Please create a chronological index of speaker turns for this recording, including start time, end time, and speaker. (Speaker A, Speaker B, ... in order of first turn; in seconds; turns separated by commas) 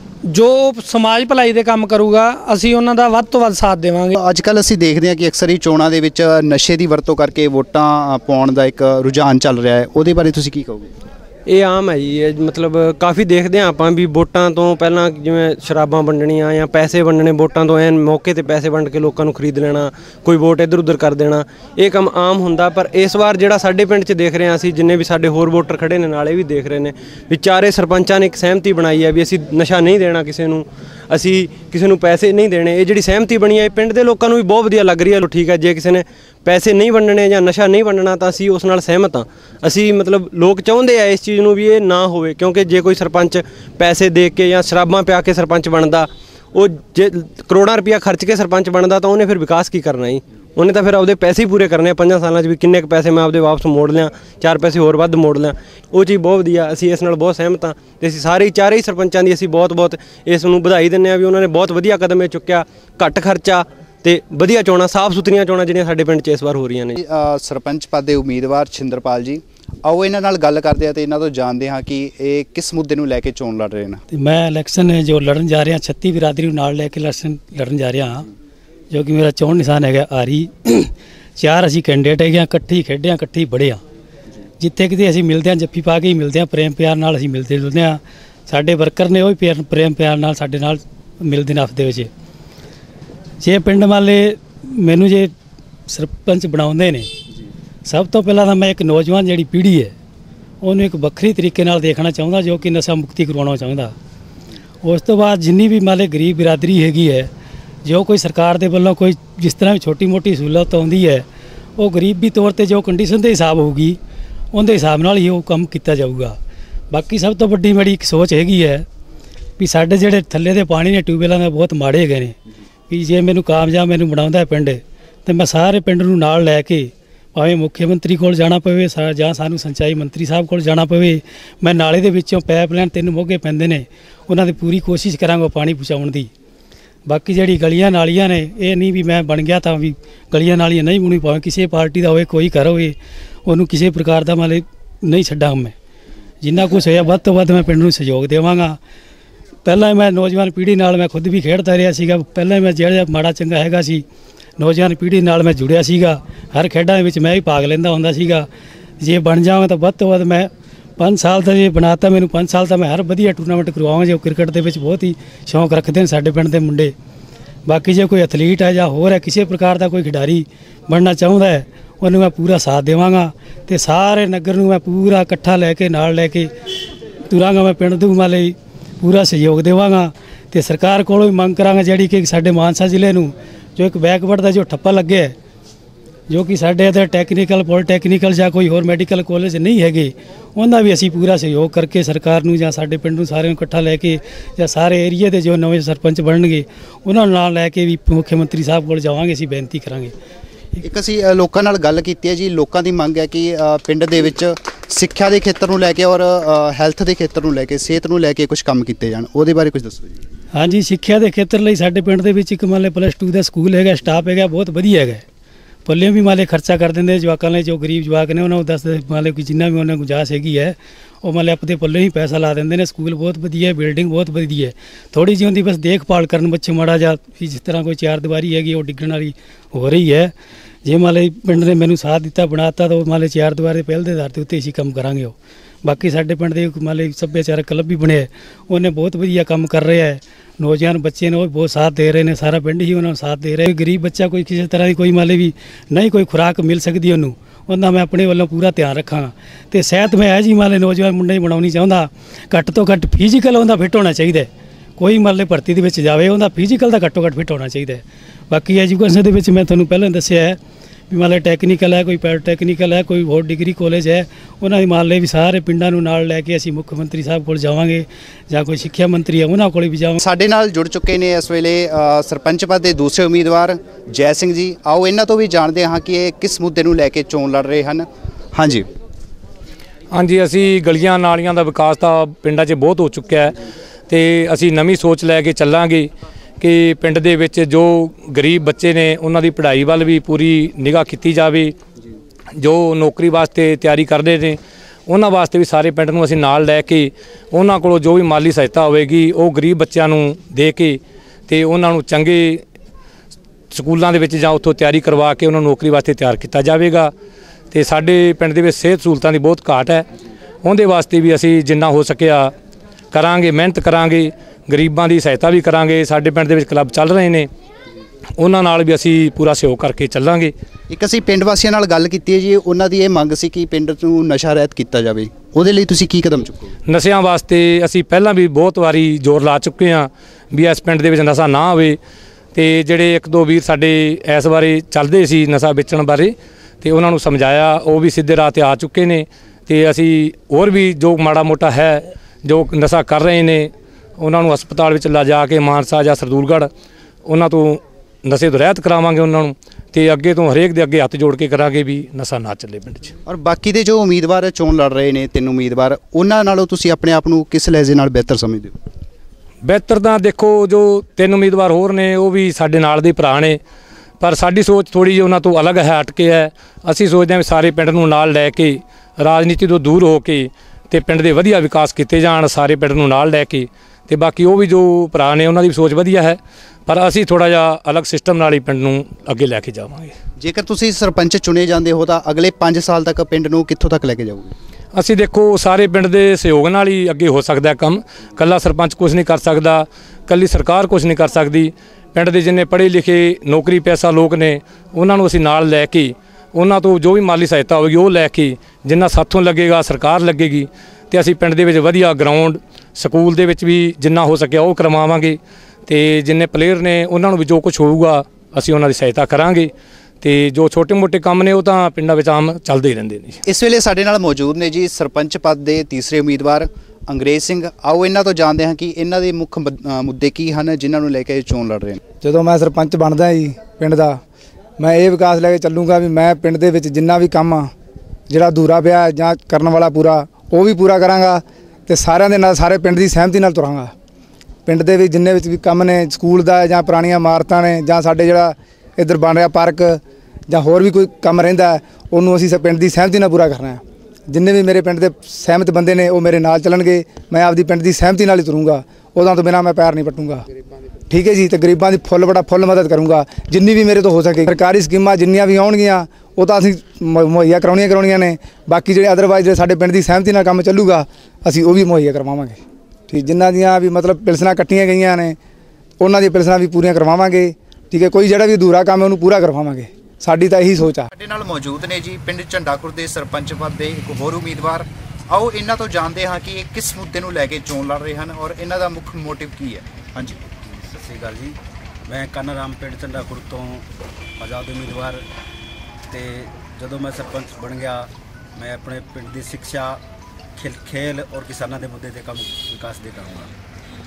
Speaker A: 0.3-4.1, Speaker B: 4.2-10.9, Speaker C: 11.4-67.0, Speaker B: 67.0-74.0, Speaker D: 74.1-78.3, Speaker D: 78.9-83.8, Speaker D: 84.6-92.1, Speaker D: 93.4-95.3, Speaker D: 95.9-97.1, Speaker D: 97.8-99.9, Speaker D: 100.6-103.9, Speaker D: 104.8-107.3, Speaker D: 107.8-111.2, Speaker D: 111.8-114.0, Speaker D: 114.5-116.4, Speaker D: 116.9-118.8, Speaker D: 119.6-122.3, Speaker D: 122.9-136.3, Speaker D: 137.1-145.7, Speaker D: 146.4-148.8, Speaker D: 149.6-154.0, Speaker D: 154.6-158.5, Speaker D: 159.0-166.9, Speaker D: 167.7-176.5, Speaker D: 177.3-185.3, Speaker D: 186.3-200.1, Speaker B: 200.8-210.1, Speaker D: 210.5-215.2, Speaker D: 215.8-230.3, Speaker D: 230.8-260.6, Speaker D: 261.1-270.2, Speaker B: 270.2-278.8, Speaker E: 280.1-283.6, Speaker E: 284.1-286.1, Speaker E: 286.6-291.7, Speaker E: 292.6-302.6, Speaker E: 303.7-307.1, Speaker E: 307.7-310.1, Speaker E: 310.6-312.5, Speaker E: 313.1-317.5, Speaker E: 318.4-320.5, Speaker B: 320.9-326.7, Speaker E: 326.9-332.0, Speaker E: 332.5-346.7, Speaker E: 347.2-353.1, Speaker B: 353.2-358.7, Speaker E: 359.6-363.6, Speaker E: 364.2-380.1, Speaker B: 380.4-384.5, Speaker E: 384.9-409.7, Speaker E: 410.2-413.4, Speaker B: 413.4-422.0, Speaker F: 422.2-424.2, Speaker F: 424.8-427.7, Speaker F: 428.3-433.9, Speaker F: 434.6-450.4, Speaker F: 451.1-462.6, Speaker F: 463.1-465.4, Speaker F: 466.0-471.1, Speaker B: 471.1-480.4, Speaker G: 480.6-483.9, Speaker G: 484.4-485.2, Speaker G: 486.1-490.0, Speaker G: 490.6-493.5